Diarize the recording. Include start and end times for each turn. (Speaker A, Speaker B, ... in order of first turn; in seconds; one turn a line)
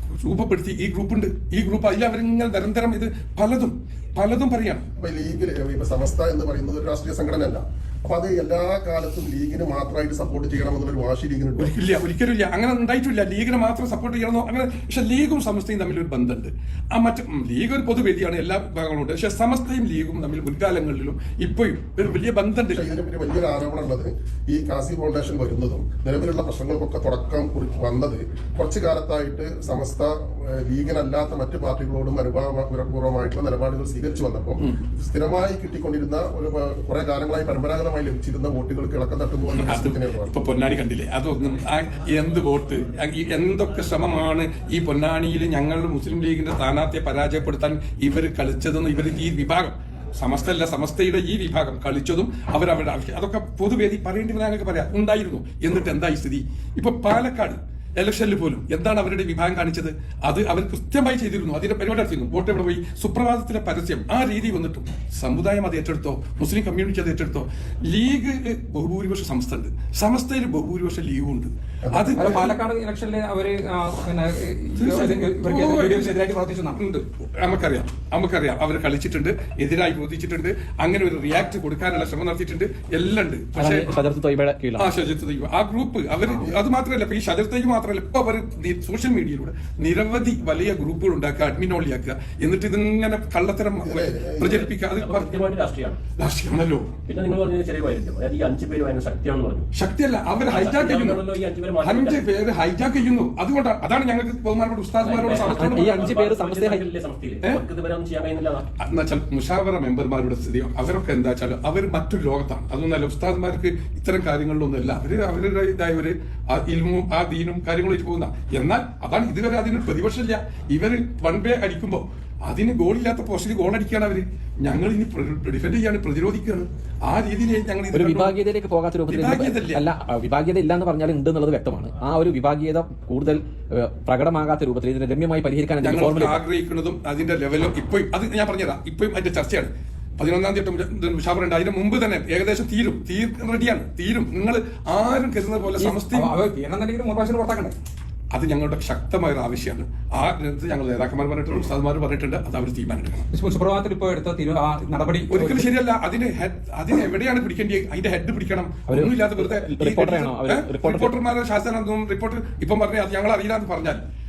Speaker A: 0.2-4.9
Speaker B: 5.0-11.7
Speaker A: 11.6-22.9
Speaker B: 22.7-40.4
Speaker A: 39.5-72.6
Speaker B: 71.8-72.5
Speaker C: 72.1-76.8
Speaker A: 74.8-76.2
Speaker A: 76.7-83.9
Speaker D: 83.5-84.9
Speaker A: 84.8-95.5
Speaker B: 93.8-94.6
Speaker E: 94.5-96.0
Speaker A: 96.1-96.9
Speaker E: 97.1-99.7
Speaker A: 99.7-101.2
Speaker E: 100.5-102.2
Speaker A: 101.8-106.2
Speaker E: 105.0-108.6
Speaker D: 105.5-106.9
Speaker A: 108.8-128.4
Speaker D: 127.9-136.4
Speaker A: 129.1-129.8
Speaker A: 135.8-146.3
Speaker C: 145.8-147.7
Speaker A: 148.3-153.2
Speaker C: 153.3-155.7
Speaker A: 155.3-164.0
Speaker D: 158.9-161.1